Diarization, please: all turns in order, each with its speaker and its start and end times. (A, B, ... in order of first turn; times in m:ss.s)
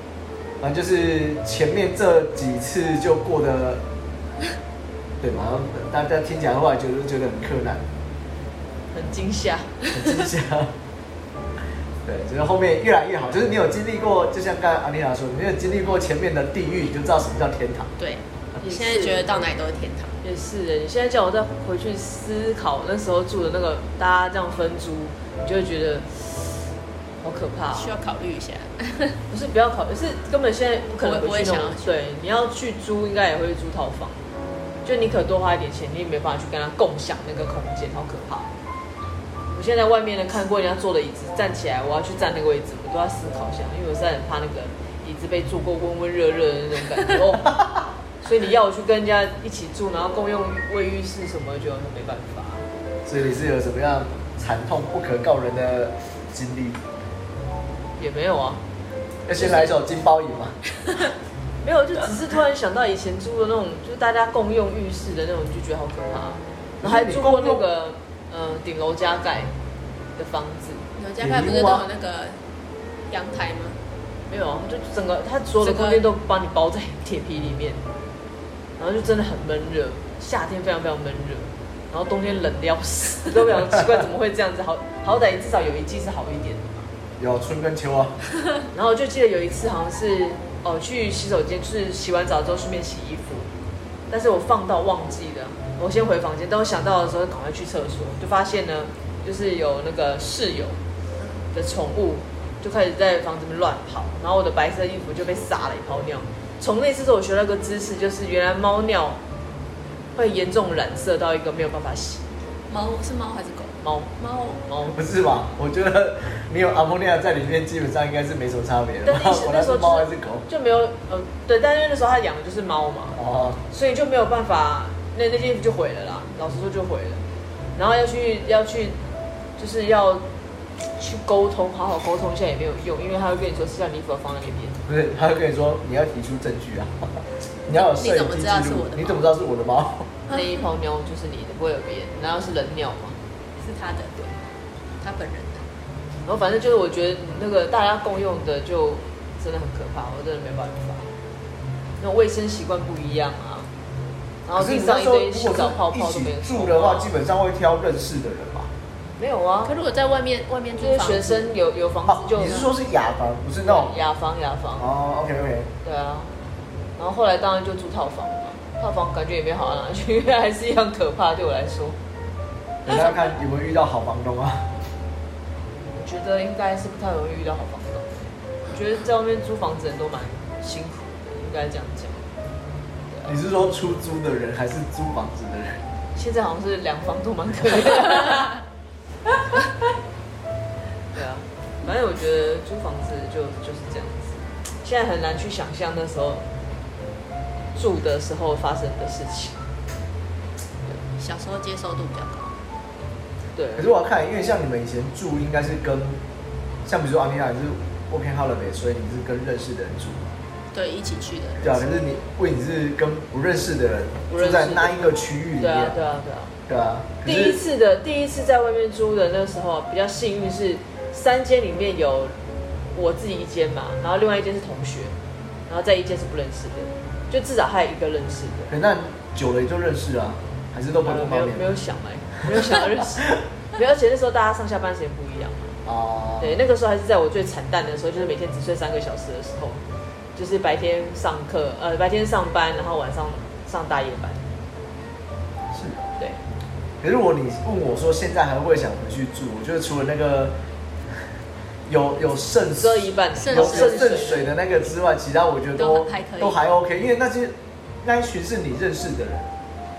0:00.6-0:03.8 A
0:05.2-0:07.8 A
0:08.9-0:10.1 B
0:09.9-0:10.7 A
0:12.0-0:17.9 A
0:18.0-0:20.2 C
0:18.6-0:19.4 B
0:20.2-0:26.7 B
0:27.2-0:27.9 B
0:27.7-0:29.2 C
0:29.3-0:34.2 B
0:31.0-0:32.0 C
0:34.8-0:38.5 B
0:39.5-0:47.6 B
0:48.2-0:52.6 B
0:53.0-0:56.8 A
0:58.0-0:58.6 B
0:59.3-1:00.6 A
0:59.4-0:59.7 B
1:01.6-1:09.5 B
1:06.8-1:07.6 A
1:10.2-1:10.8 B
1:11.0-1:12.4 C
1:11.2-1:11.8 A
1:13.1-1:13.8 C
1:14.3-1:17.8 B
1:15.6-1:16.0 C
1:18.8-1:26.9 B
1:27.2-1:28.2 A
1:28.7-1:33.5 B
1:34.1-1:40.8 B
1:41.5-1:49.2 B
1:50.1-1:52.3 B
1:52.7-1:54.6 C
1:53.8-1:55.0 B
1:54.9-2:00.4 A
1:59.0-2:07.2 B
2:03.2-2:03.6 A
2:07.8-2:09.0 B
2:09.6-2:10.3 B
2:11.0-2:14.8 B
2:14.9-2:20.1 A
2:17.7-2:19.3 C
2:20.3-2:23.2 B
2:23.6-2:24.3 C
2:25.0-2:25.6 C
2:26.2-2:31.1 B
2:32.0-2:33.7 B
2:34.4-2:37.1 B
2:34.6-2:38.7 A
2:39.2-2:39.7 B
2:39.6-2:41.5 C
2:40.8-2:42.7 B
2:42.1-2:44.0 A
2:43.6-2:44.8 B
2:44.8-2:45.7 A
2:45.8-2:46.3 B
2:47.0-2:52.0 B
2:52.8-2:54.7 A
2:52.9-2:53.3 B
2:55.9-3:02.3 B
3:03.1-3:03.4 B
3:03.2-3:05.8 A
3:06.1-3:08.6 B
3:11.1-3:16.4 B
3:17.7-3:19.6 B
3:21.2-3:22.5 C
3:23.5-3:23.9 B
3:23.8-3:26.2 A
3:26.8-3:30.4 A
3:30.7-3:31.9 C
3:31.6-3:36.0 A
3:34.3-3:36.5 B
3:36.7-3:37.6 A
3:37.2-3:42.4 B
3:42.9-3:45.2 B
3:45.7-3:48.7 B
3:48.7-3:51.6 A
3:51.0-3:55.8 B
3:55.8-3:56.6 A
3:56.4-3:59.8 B
4:00.3-4:04.4 B
4:05.7-4:06.1 A
4:07.0-4:10.5 A
4:11.9-4:19.5 A
4:12.8-4:14.5 B
4:13.4-4:14.2 C
4:15.8-4:16.6 C